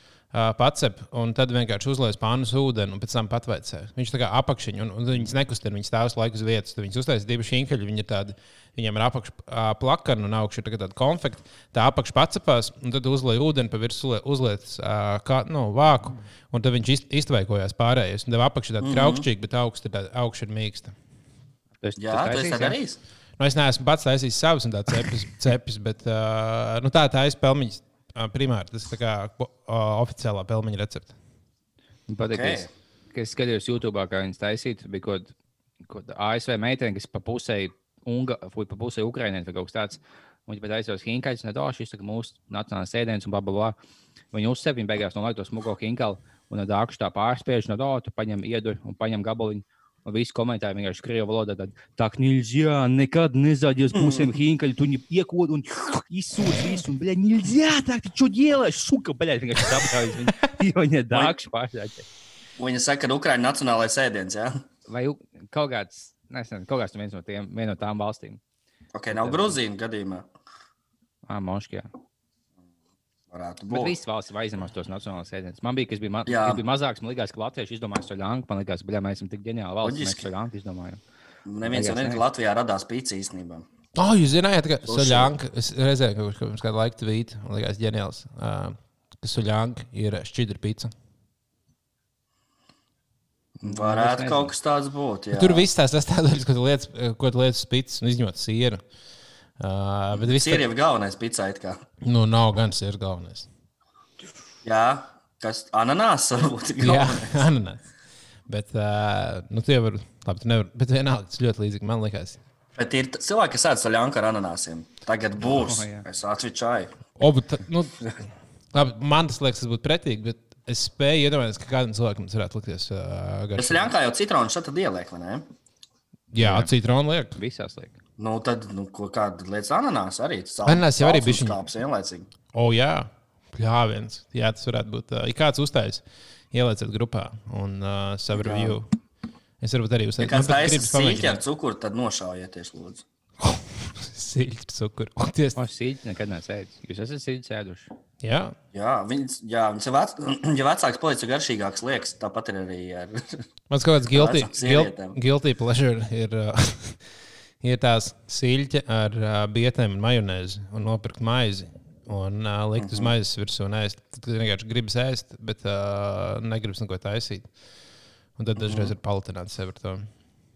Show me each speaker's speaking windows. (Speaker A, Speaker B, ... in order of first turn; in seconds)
Speaker A: 0.3-20.9, 23.4-31.1, 84.0-90.9, 95.3-98.8, 99.6-100.7, 102.0-103.5, 106.8-107.8, 108.5-112.4, 117.2-118.1, 118.7-123.9, 126.3-127.4, 130.7-131.6, 132.5-138.9, 139.6-141.4, 143.4-145.6, 148.2-148.6, 153.7-167.5, 168.4-170.1
Speaker B: 18.8-19.3, 22.0-23.0, 32.3-32.7, 53.9-54.3, 62.6-64.6, 68.9-70.3, 73.3-74.0, 76.3-76.6, 79.8-80.3, 81.5-83.7, 84.8-85.3, 93.6-95.7, 100.1-101.8, 104.7-107.5, 112.8-116.9, 123.6-125.5, 128.2-132.3, 138.3-138.8, 140.2-143.1, 148.7-153.4, 154.1-155.2, 162.8-163.2, 168.6-168.9
Speaker C: 21.8-22.8, 32.1-43.8, 44.3-62.1, 64.9-68.4, 69.1-69.6, 71.3-71.9, 73.7-81.0, 81.7-82.2, 93.6-94.5, 115.5-116.0, 126.3-126.7, 127.4-128.0, 145.6-147.9